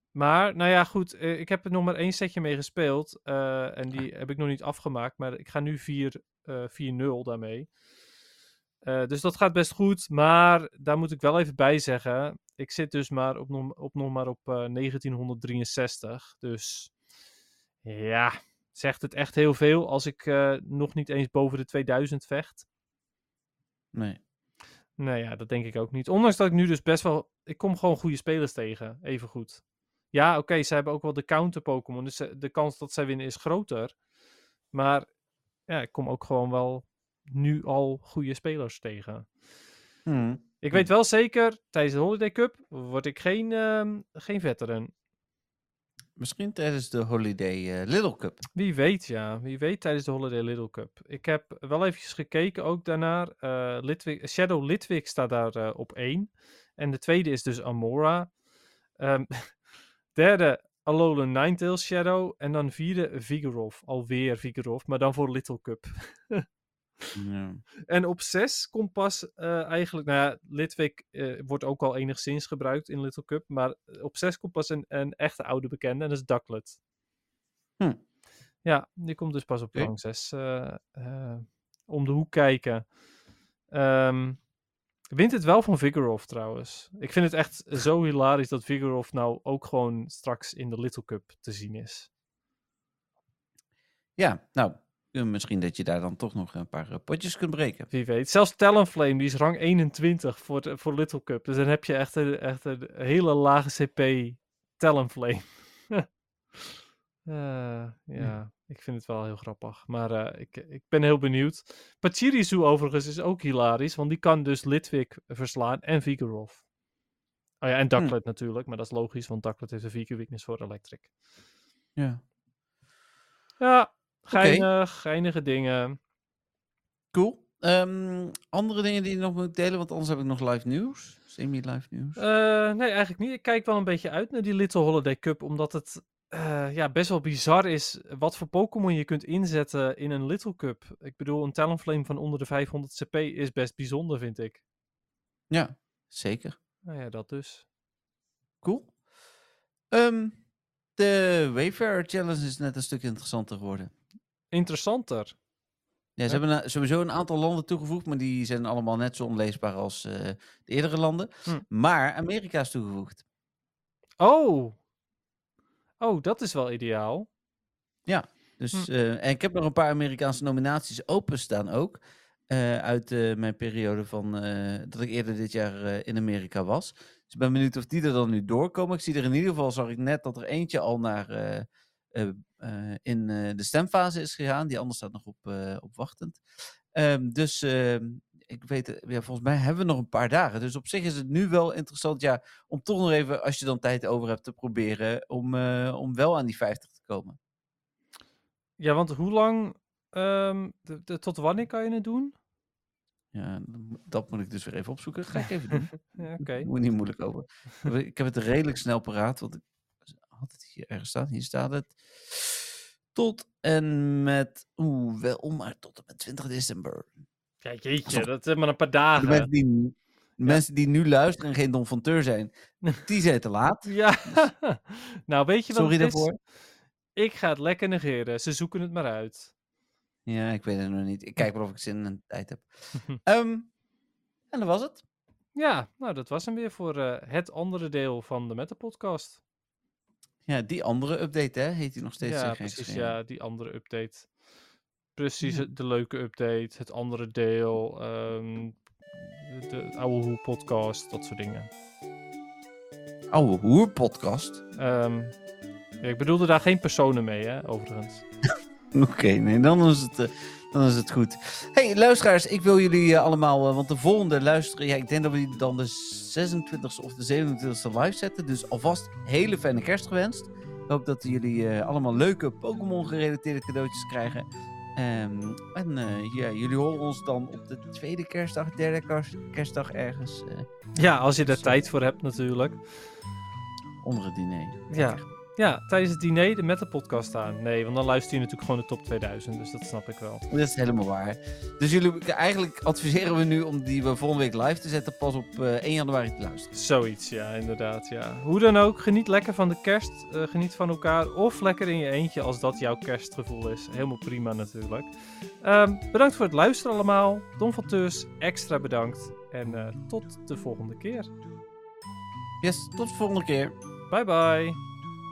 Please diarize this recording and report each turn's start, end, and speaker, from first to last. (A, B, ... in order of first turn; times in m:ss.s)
0:00.1-0:07.7 A
0:08.8-0:16.9 A
0:17.8-0:22.6 A
0:23.9-0:24.2 B
0:25.0-0:34.0 A
0:34.7-0:35.1 A
0:35.7-0:39.3 A
0:40.0-0:40.9 B
0:40.6-0:44.9 A
0:46.2-0:48.4 B
0:48.5-0:58.3 A
0:59.0-1:06.4 A
1:07.1-1:07.6 B
1:07.9-1:16.8 A
1:18.6-1:22.9 A
1:23.7-1:24.4 A
1:25.1-1:32.1 A
1:34.2-1:37.9 B
1:37.9-1:46.0 A
1:47.3-1:56.6 A
1:57.6-2:01.1 A
2:03.6-2:06.0 A
2:04.3-2:04.7 B
2:07.1-2:12.2 B
2:12.2-2:24.6 A
2:25.5-2:26.6 B
2:26.8-2:27.6 A
2:28.6-2:28.9 B
2:29.9-2:30.4 B
2:31.0-2:33.9 B
2:34.5-2:35.4 A
2:36.2-2:43.2 B
2:44.2-2:44.8 A
2:46.0-2:47.3 A
2:48.0-3:06.4 B
3:06.9-3:17.4 B
3:18.8-3:22.3 A
3:23.3-3:29.6 B
3:26.1-3:26.7 A
3:30.2-3:37.1 B
3:37.6-3:39.5 A
3:39.2-3:44.4 B
3:43.8-3:46.3 A
3:45.7-3:46.3 B
3:47.2-3:49.5 A
3:50.2-3:53.7 B
3:54.5-3:55.0 B
3:55.5-3:59.4 A
4:00.5-4:03.2 B
4:02.2-4:04.3 A
4:05.1-4:11.7 A
4:13.3-4:14.6 B
4:14.8-4:15.4 A
4:16.0-4:18.2 A
4:18.9-4:40.7 B
4:41.0-4:42.8 A
4:41.4-4:41.8 B
4:44.0-4:45.2 B
4:44.9-4:50.4 A
4:50.5-4:56.7 B
4:56.7-5:11.3 A
5:12.6-5:13.7 B
5:14.1-5:14.8 A